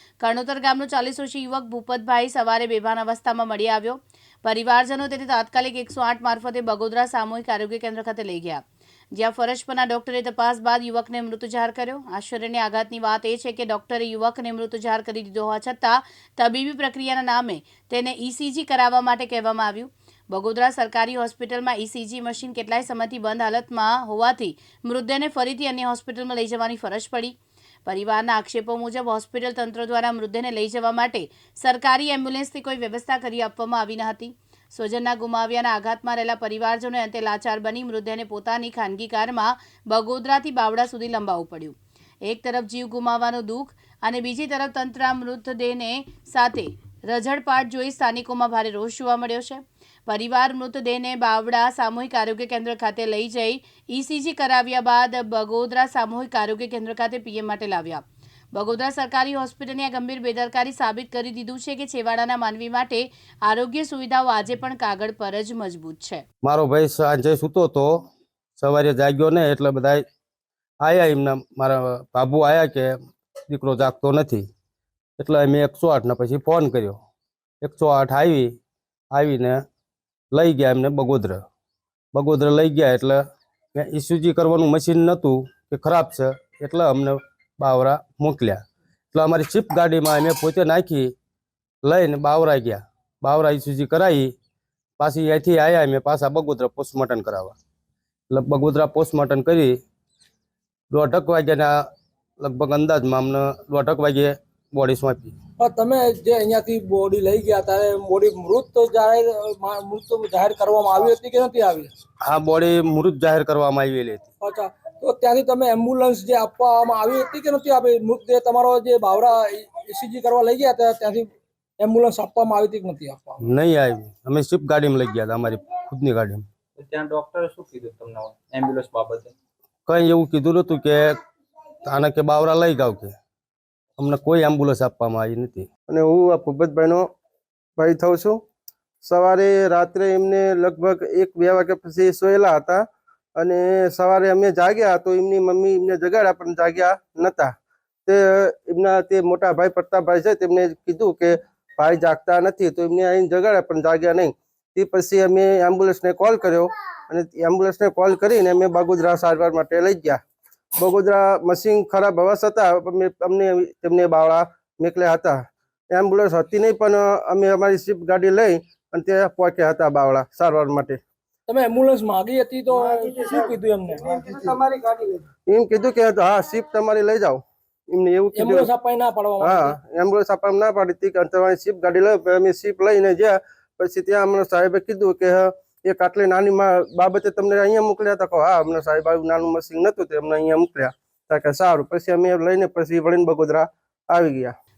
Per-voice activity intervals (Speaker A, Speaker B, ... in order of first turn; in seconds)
Speaker A: 0.2-8.6, 9.2-27.4, 27.9-41.8, 42.3-66.2
Speaker B: 66.4-67.9, 68.6-70.0, 70.8-72.9, 73.5-74.5, 75.2-77.0, 77.6-78.5, 79.1-79.6, 80.3-81.4, 82.1-83.2, 83.8-88.6, 89.1-91.1, 91.8-94.3, 95.0-97.5, 98.3-99.8, 100.9-101.7, 102.4-105.3, 112.2-114.3, 123.4-126.5, 129.9-131.2, 131.9-133.1, 134.0-135.7
Speaker C: 105.6-111.9, 114.4-123.4, 171.5-174.6, 178.4-179.8
Speaker D: 126.8-129.3
Speaker E: 135.9-137.1, 137.8-138.4, 139.0-142.8, 143.4-147.5, 148.1-160.2, 160.8-171.0, 174.7-178.7, 179.4-194.5